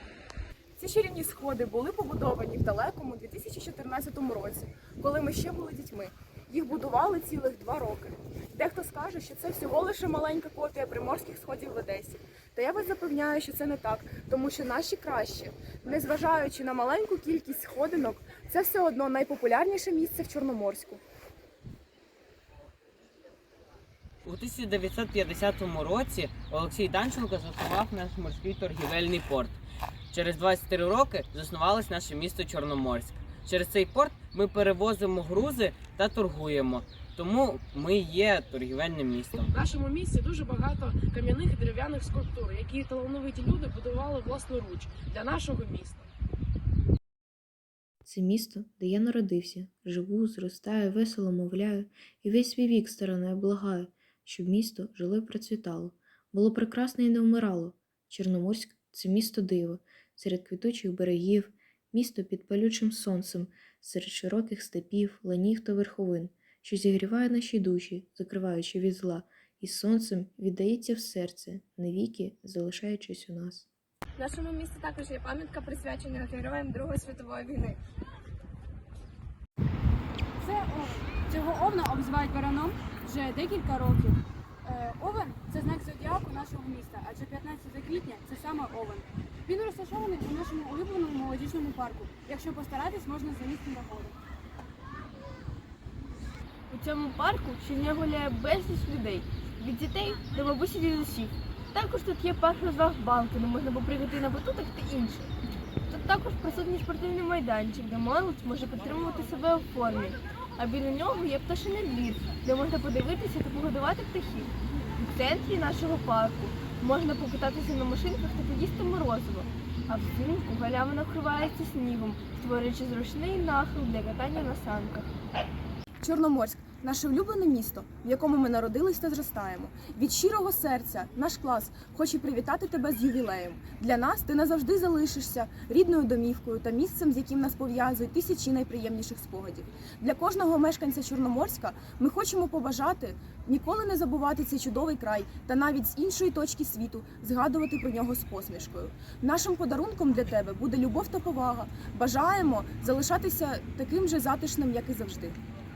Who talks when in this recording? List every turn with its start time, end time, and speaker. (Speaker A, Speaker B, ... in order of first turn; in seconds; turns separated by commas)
Speaker A: 0.8-21.0, Speaker B: 24.2-39.5, Speaker C: 39.4-46.1, Speaker D: 48.0-73.7, Speaker E: 74.2-77.8, Speaker F: 80.4-94.2, Speaker G: 96.7-105.3, Speaker G: 105.9-125.1, Speaker A: 126.0-155.4